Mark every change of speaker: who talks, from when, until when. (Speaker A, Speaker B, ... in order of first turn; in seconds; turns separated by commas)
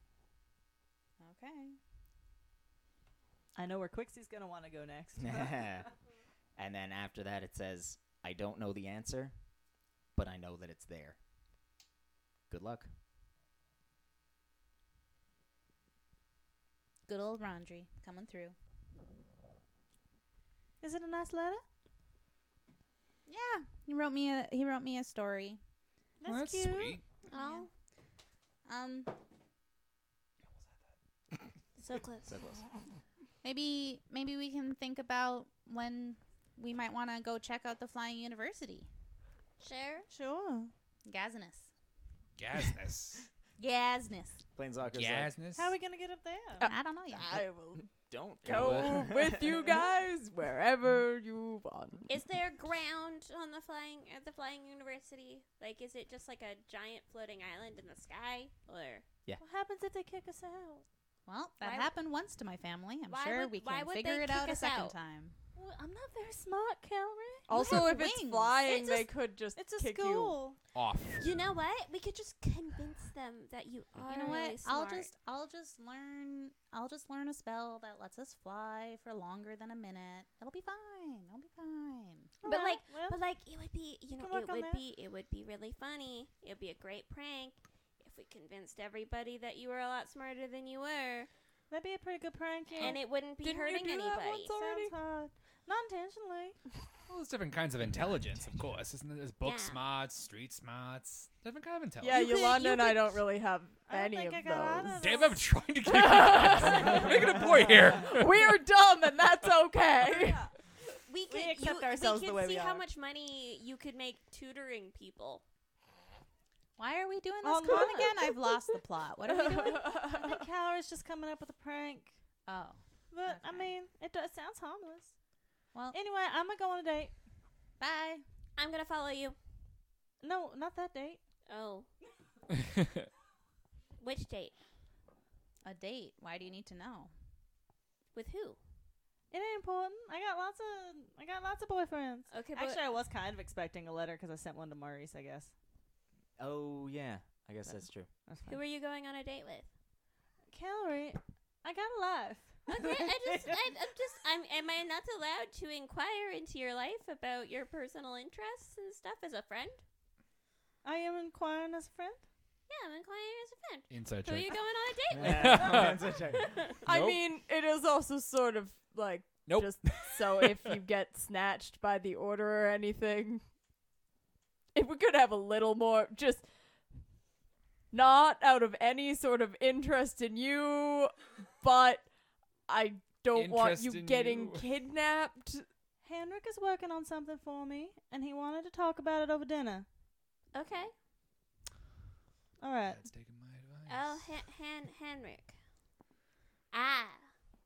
Speaker A: 1.2-1.8, Speaker B: 3.5-5.9, Speaker C: 5.2-5.9, Speaker C: 6.6-9.3, Speaker C: 10.1-11.2, Speaker C: 12.5-12.9, Speaker A: 17.1-18.6, Speaker B: 20.8-21.6, Speaker A: 23.2-25.6, Speaker B: 26.2-27.0, Speaker D: 26.2-27.0, Speaker E: 27.3-27.7, Speaker A: 27.3-27.7, Speaker A: 28.6-29.1, Speaker E: 31.8-32.3, Speaker C: 32.2-32.6, Speaker A: 33.4-38.9, Speaker E: 39.6-40.1, Speaker B: 40.1-40.7, Speaker A: 41.0-41.7, Speaker D: 42.4-43.3, Speaker A: 43.6-44.4, Speaker C: 44.5-45.3, Speaker D: 44.9-45.8, Speaker B: 45.5-46.6, Speaker F: 46.6-47.9, Speaker A: 46.6-47.4, Speaker C: 48.0-49.6, Speaker F: 48.4-52.1, Speaker D: 48.5-49.1, Speaker E: 52.1-59.0, Speaker B: 59.4-60.8, Speaker A: 61.3-65.3, Speaker E: 61.6-61.9, Speaker E: 63.0-65.0, Speaker B: 65.5-67.5, Speaker F: 67.5-70.4, Speaker A: 67.5-68.6, Speaker E: 68.7-69.0, Speaker B: 68.7-69.0, Speaker B: 69.5-70.6, Speaker D: 70.7-71.3, Speaker E: 71.2-75.1, Speaker A: 74.0-82.3, Speaker B: 82.4-83.2, Speaker E: 82.4-91.3, Speaker B: 84.2-84.8, Speaker B: 91.7-93.0, Speaker E: 92.8-94.6, Speaker F: 92.8-94.9, Speaker B: 94.0-96.6, Speaker D: 97.1-102.2, Speaker E: 99.4-99.8, Speaker F: 102.0-105.1, Speaker B: 102.1-103.0, Speaker B: 103.8-105.4, Speaker D: 105.0-108.6, Speaker F: 105.8-110.5, Speaker B: 110.1-110.5, Speaker E: 111.1-115.4, Speaker B: 111.3-112.8, Speaker A: 116.8-120.0, Speaker B: 117.4-118.3, Speaker F: 119.2-120.4, Speaker B: 119.5-122.2, Speaker A: 122.5-123.7, Speaker B: 123.1-125.1, Speaker B: 125.9-127.1, Speaker A: 127.8-128.2, Speaker E: 128.6-129.4, Speaker B: 130.2-131.2, Speaker E: 131.5-131.9, Speaker E: 134.0-134.6, Speaker A: 135.6-137.1, Speaker E: 138.1-138.6, Speaker B: 139.3-145.5, Speaker E: 142.3-142.8, Speaker C: 146.4-148.1, Speaker B: 147.7-148.6, Speaker E: 148.5-149.7, Speaker B: 150.5-153.6, Speaker E: 152.7-159.8, Speaker B: 160.8-162.2, Speaker E: 162.7-166.8, Speaker D: 163.9-166.1, Speaker C: 165.2-166.7, Speaker D: 166.8-167.3, Speaker F: 166.8-173.4, Speaker D: 169.4-170.8, Speaker F: 174.7-176.5, Speaker F: 177.9-182.1, Speaker F: 182.7-185.7, Speaker D: 183.3-184.7, Speaker B: 186.0-189.9, Speaker E: 190.5-190.9, Speaker B: 192.6-193.1, Speaker D: 192.8-194.3, Speaker E: 193.9-195.6, Speaker E: 196.7-197.3